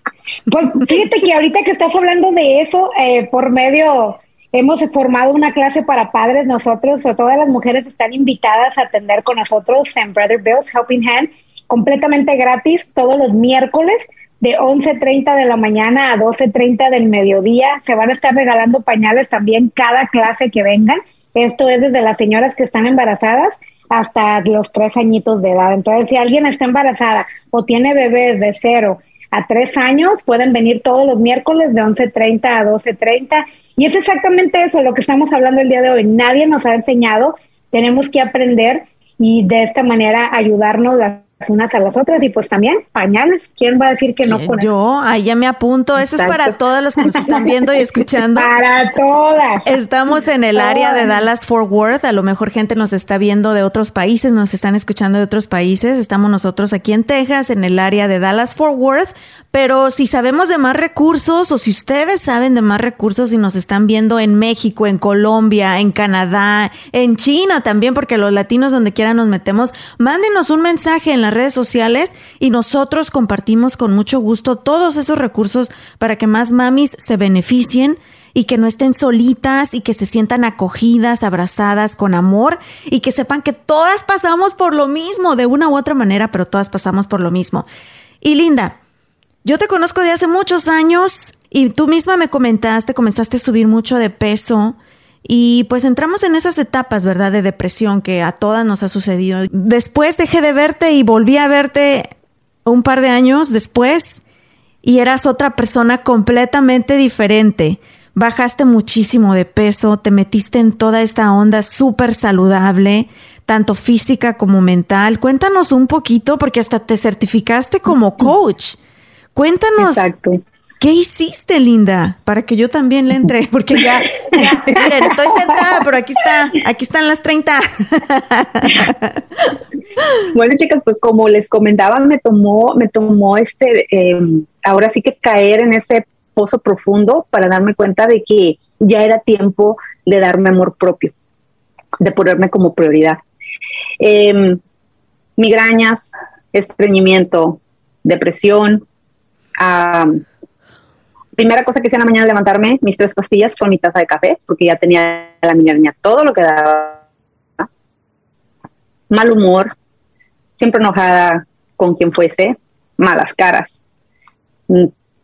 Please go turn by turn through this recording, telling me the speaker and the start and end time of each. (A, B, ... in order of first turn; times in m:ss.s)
0:00.5-0:44.7 A
0:44.3-0:48.5 B
0:46.1-0:46.5 C
0:48.4-0:49.7 A
0:49.6-1:27.7 B
0:50.6-0:51.1 A
1:28.2-1:28.8 B
1:29.4-1:42.1 B
1:42.7-1:44.2 B
1:44.8-1:58.8 B
1:59.4-2:00.1 B
1:59.8-2:00.4 C
2:00.8-2:09.5 B
2:04.8-2:05.1 C
2:10.3-2:21.1 C
2:22.0-2:23.2 C
2:24.0-2:24.6 C
2:25.4-2:28.8 C
2:29.6-2:30.2 C
2:31.4-2:37.0 C
2:39.1-2:39.7 C
2:40.6-2:43.9 C